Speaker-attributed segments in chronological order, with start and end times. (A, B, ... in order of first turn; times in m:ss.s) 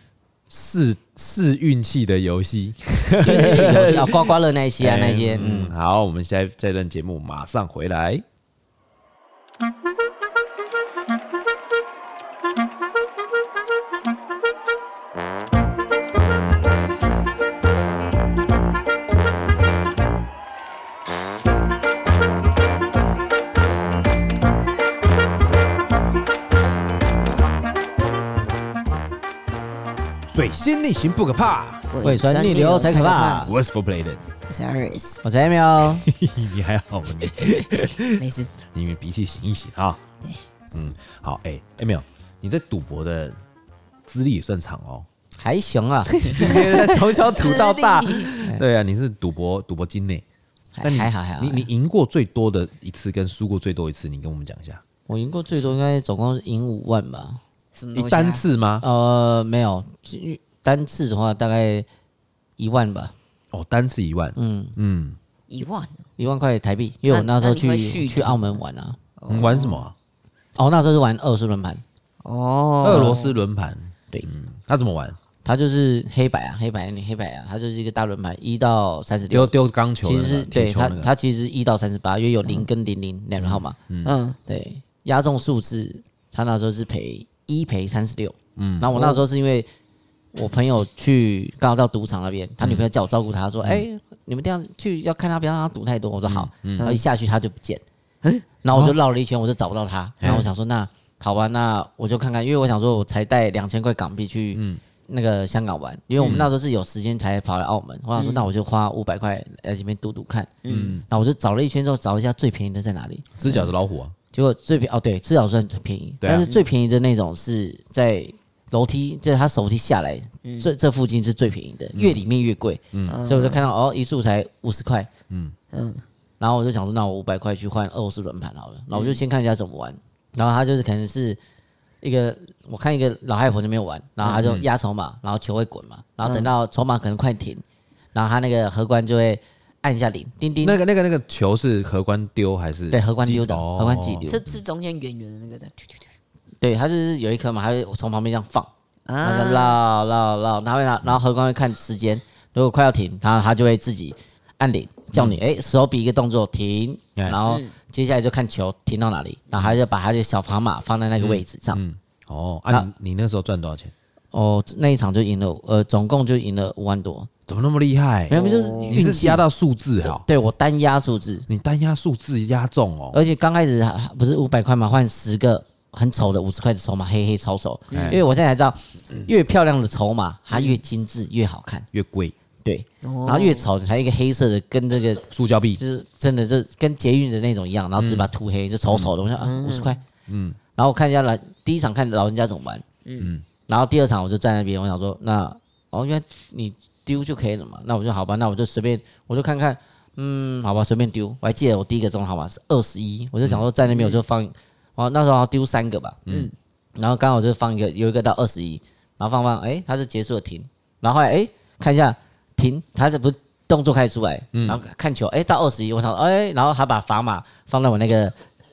0:00.5-0:08.2 A
0:03.1-0:05.7 B
0:03.2-0:04.2 C
0:30.3-0:31.9 A
0:31.9-0:33.5 C
0:32.0-0:33.5 B
0:33.4-0:34.2 A
0:34.5-0:35.2 C
0:35.2-0:36.1 B
0:35.8-0:40.0 A
0:37.4-0:38.5 C
0:40.7-0:43.4 A
0:44.1-0:45.1 A
0:45.4-0:46.6 B
0:46.2-0:50.2 A
0:46.3-0:48.4 C
0:50.7-0:51.7 B
0:50.8-0:54.8 A
0:55.1-0:57.4 B
0:57.7-0:58.4 C
0:57.9-0:58.8 A
0:58.8-1:01.8 B
1:02.6-1:03.1 B
1:03.5-1:05.2 A
1:04.4-1:04.7 B
1:05.5-1:06.0 C
1:06.2-1:09.0 B
1:07.1-1:08.6 C
1:09.2-1:09.8 C
1:09.3-1:09.9 A
1:10.6-1:11.8 B
1:12.2-1:13.4 C
1:12.8-1:15.2 A
1:12.9-1:13.2 B
1:15.4-1:23.8 B
1:19.3-1:21.1 A
1:23.4-1:24.1 A
1:24.0-1:24.4 C
1:24.5-1:29.7 B
1:28.6-1:28.9 A
1:28.9-1:29.2 C
1:30.3-1:37.8 B
1:36.2-1:36.9 A
1:36.8-1:37.0 C
1:38.6-1:50.5 B
1:44.5-1:44.8 A
1:46.2-1:46.5 A
1:48.2-1:48.5 C
1:50.6-1:51.0 C
1:50.7-1:51.0 A
1:51.1-1:53.3 B
1:53.4-1:54.1 A
1:54.3-2:05.1 B
1:56.2-1:56.5 A
1:56.4-1:56.6 C
2:00.4-2:00.7 C
2:01.9-2:02.2 A
2:02.9-2:03.2 A
2:03.1-2:03.7 C
2:05.3-2:05.5 A
2:05.7-2:06.0 C
2:06.4-2:11.4 B
2:08.9-2:09.2 C
2:12.0-2:17.6 B
2:14.4-2:14.7 A
2:16.2-2:16.5 C
2:18.1-2:20.8 B
2:20.6-2:24.3 A
2:22.9-2:24.4 B
2:24.2-2:26.1 C
2:26.6-2:28.7 B
2:29.1-2:29.8 C
2:29.2-2:41.8 B
2:35.1-2:35.4 A
2:37.5-2:37.7 C
2:41.2-2:43.9 A
2:44.3-2:47.3 B
2:47.5-2:48.4 A
2:48.3-2:49.4 B
2:48.3-2:49.1 C
2:48.9-2:50.2 A
2:50.0-2:51.5 B
2:51.5-2:53.2 A
2:53.1-3:01.9 B
2:57.9-2:58.2 C
2:57.9-2:58.2 A
3:01.9-3:02.3 A
3:02.6-3:10.0 B
3:03.0-3:03.7 C
3:05.3-3:05.8 A
3:08.0-3:08.3 A
3:09.4-3:10.0 C
3:10.3-3:10.6 A
3:10.8-3:12.8 B
3:13.0-3:13.3 C
3:13.2-3:13.4 A
3:13.7-3:26.2 B
3:23.9-3:24.2 C
3:26.2-3:26.5 A
3:26.3-3:26.5 C
3:27.0-3:38.4 B
3:34.5-3:34.8 A